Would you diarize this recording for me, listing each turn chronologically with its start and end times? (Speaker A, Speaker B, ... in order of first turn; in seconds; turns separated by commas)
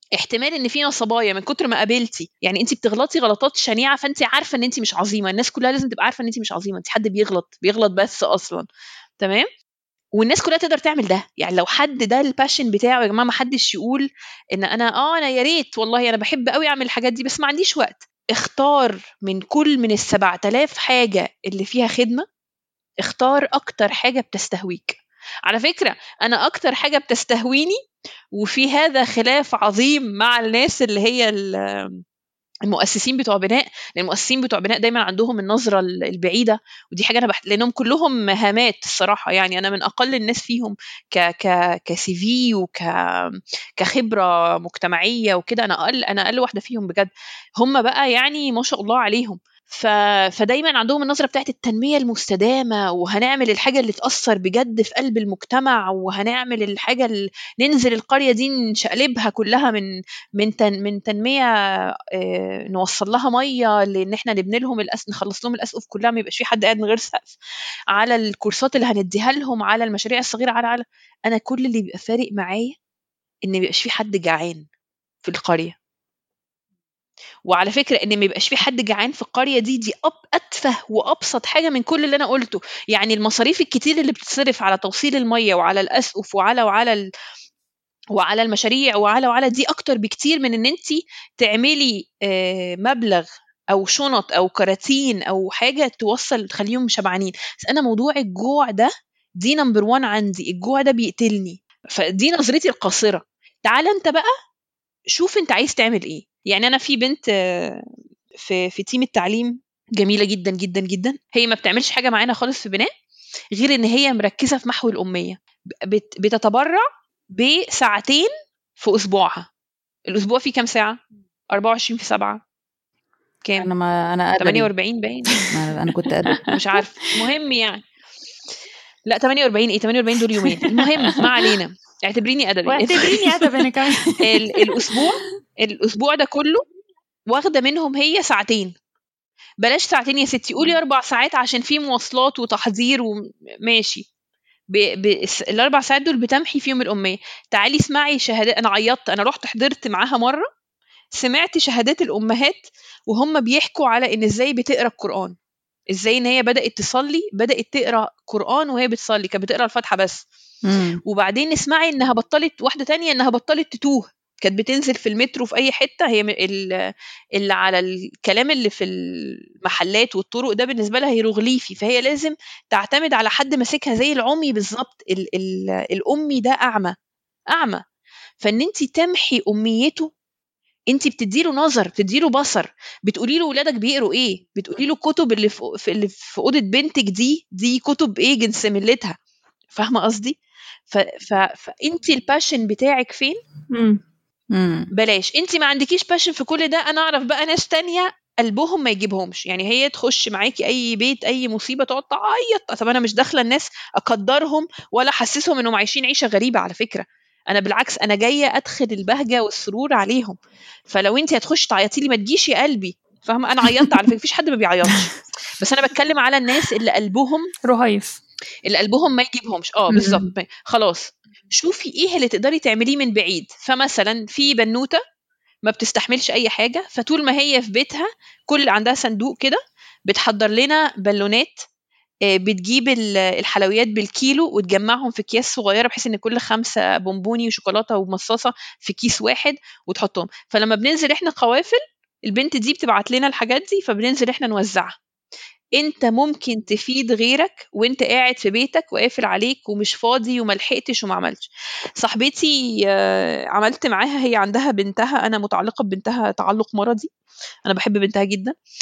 Speaker A: 0.2-8.7, Speaker A: 9.2-9.5, Speaker A: 10.2-22.3, Speaker A: 23.0-27.8, Speaker A: 28.4-32.0, Speaker A: 32.7-61.5, Speaker A: 62.1-67.3, Speaker A: 67.9-72.7, Speaker A: 73.5-74.7, Speaker A: 75.2-75.8, Speaker A: 77.5-87.0, Speaker A: 88.2-104.3, Speaker A: 105.1-107.8, Speaker A: 108.4-112.9, Speaker A: 113.5-119.5, Speaker A: 120.1-121.0, Speaker A: 121.5-122.4, Speaker A: 123.4-123.7, Speaker B: 123.6-124.7, Speaker A: 124.4-125.5, Speaker B: 125.5-126.4, Speaker A: 126.5-127.8, Speaker A: 129.1-133.4, Speaker C: 130.4-131.3, Speaker C: 132.7-134.9, Speaker A: 134.2-136.6, Speaker A: 137.3-138.7, Speaker A: 139.6-143.1, Speaker A: 143.7-144.1, Speaker A: 144.7-150.5, Speaker A: 151.2-155.4, Speaker A: 155.9-160.2, Speaker B: 160.7-161.0, Speaker A: 161.1-176.9, Speaker A: 177.5-177.8, Speaker A: 178.4-180.1, Speaker A: 180.9-189.2, Speaker A: 189.8-190.4, Speaker A: 190.9-193.4, Speaker C: 193.7-194.0, Speaker B: 194.5-194.9, Speaker A: 194.9-210.4, Speaker A: 210.9-217.5, Speaker C: 217.7-218.2, Speaker A: 218.7-225.0, Speaker B: 219.9-220.3, Speaker A: 225.7-231.7, Speaker A: 232.3-244.9, Speaker A: 245.8-251.5, Speaker A: 252.0-257.1, Speaker A: 257.7-258.6